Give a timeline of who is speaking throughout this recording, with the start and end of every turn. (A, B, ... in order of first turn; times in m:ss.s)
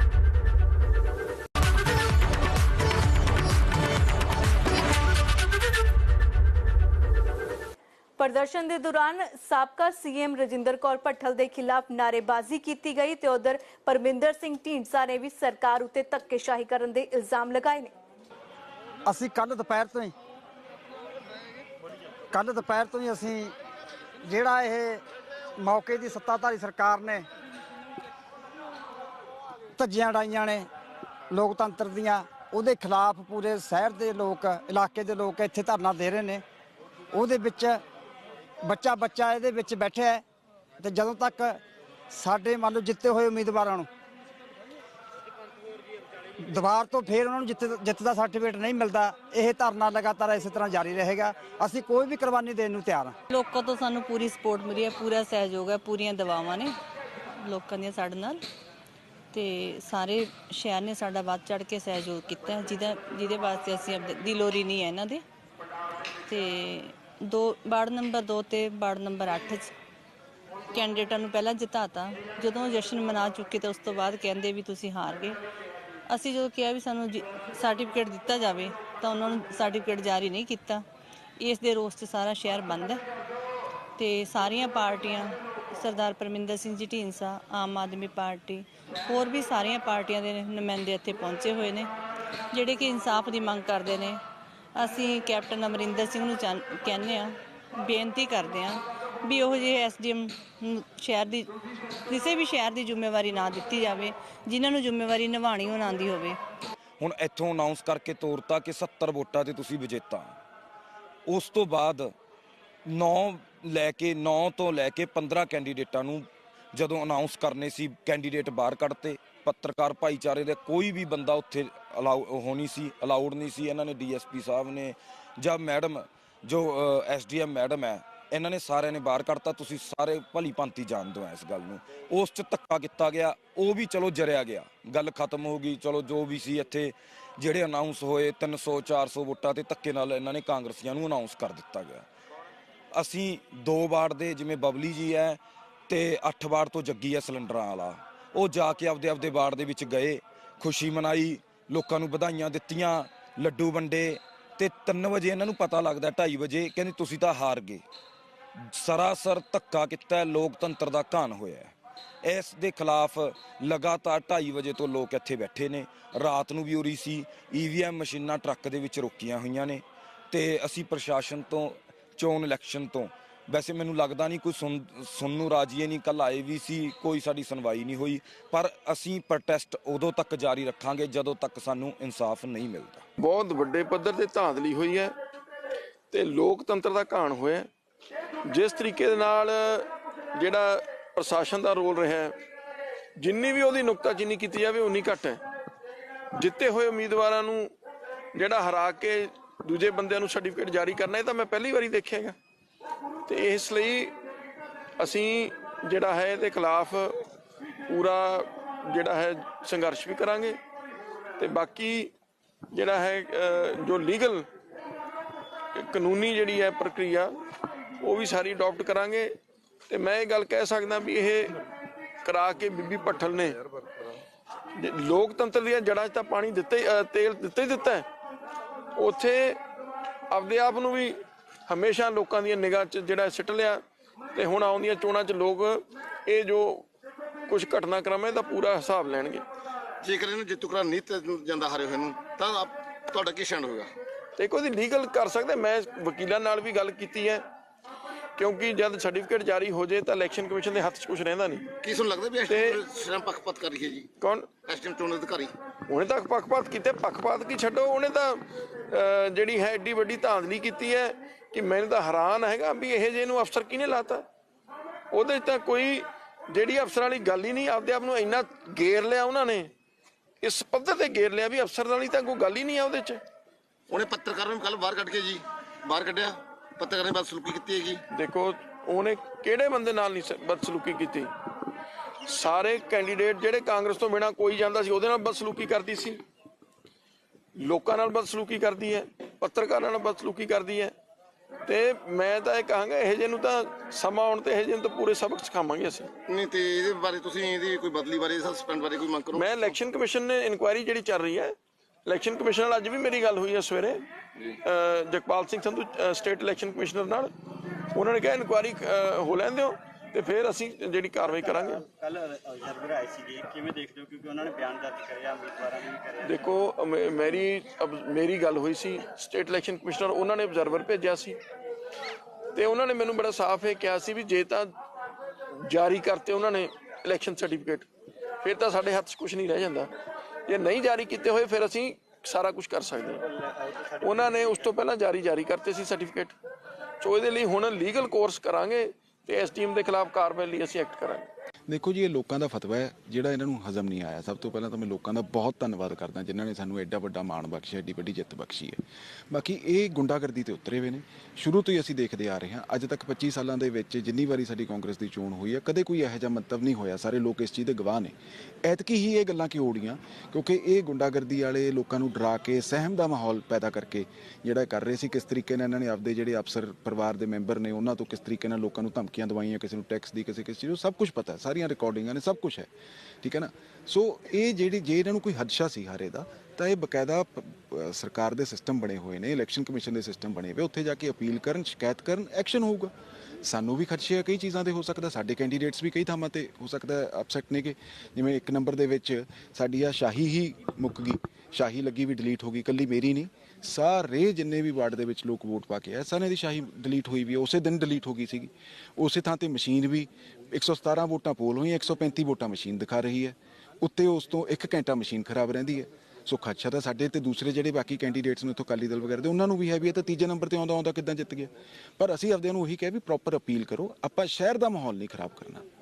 0:08.2-0:17.9 A
0:19.0-0:20.1 B
0:22.3-0:23.5 B
0:24.2-0:25.0 B
0:25.6-0:27.2 B
0:29.8-0:30.7 B
0:31.3-0:36.4 B
0:37.1-0:37.8 B
0:38.6-0:40.2 B
0:40.8-0:41.6 B
0:42.1-0:43.9 B
0:46.4-0:53.2 B
0:53.3-0:56.7 C
0:57.4-0:58.4 C
0:59.3-1:05.2 C
1:06.3-1:09.7 C
1:10.7-1:15.4 C
1:16.1-1:20.8 C
1:21.4-1:23.0 C
1:24.0-1:31.9 C
1:32.5-1:34.2 C
1:34.8-1:41.5 C
1:42.1-1:46.4 C
1:47.0-1:50.3 D
1:51.3-1:52.1 D
1:52.8-2:22.0 D
2:22.9-2:37.8 D
2:38.6-3:03.0 D
3:03.2-3:05.1 E
3:06.1-3:07.7 E
3:08.5-3:12.3 E
3:13.2-3:15.4 E
3:16.4-3:17.7 E
3:18.3-3:22.4 E
3:23.3-3:24.2 E
3:25.0-3:27.2 E
3:27.9-3:30.6 E
3:31.4-3:32.1 E
3:32.7-3:34.4 E
3:35.7-3:37.4 E
3:38.0-3:39.3 E
3:39.9-3:41.6 E
3:42.2-3:43.6 E
3:44.8-3:48.0 E
3:49.0-3:49.6 E
3:50.3-3:53.8 E
3:54.3-3:56.9 E
3:57.5-3:59.4 E
4:00.0-4:03.9 F
4:04.4-4:07.4 E
4:08.4-4:11.7 E
4:11.8-4:14.1 F
4:12.5-4:12.8 E
4:14.2-4:14.5 E
4:14.6-4:15.5 F
4:15.9-4:24.2 E
4:25.1-4:29.7 E
4:30.4-4:33.2 E
4:33.9-4:38.0 F
4:38.1-4:41.3 E
4:42.3-4:46.2 E
4:47.6-4:50.9 E
4:51.7-4:56.1 E
4:56.3-4:59.8 F
4:59.3-5:01.5 E
5:02.0-5:04.0 E
5:04.6-5:07.3 E
5:07.9-5:11.8 E
5:11.2-5:16.5 G
5:16.2-5:21.4 E
5:22.5-5:24.7 E
5:25.7-5:27.8 E
5:28.4-5:29.9 E
5:30.5-5:33.2 E
5:33.0-5:34.8 G
5:34.0-5:36.3 E
5:37.0-5:41.3 E
5:41.7-6:12.7 H
6:13.2-6:55.6 H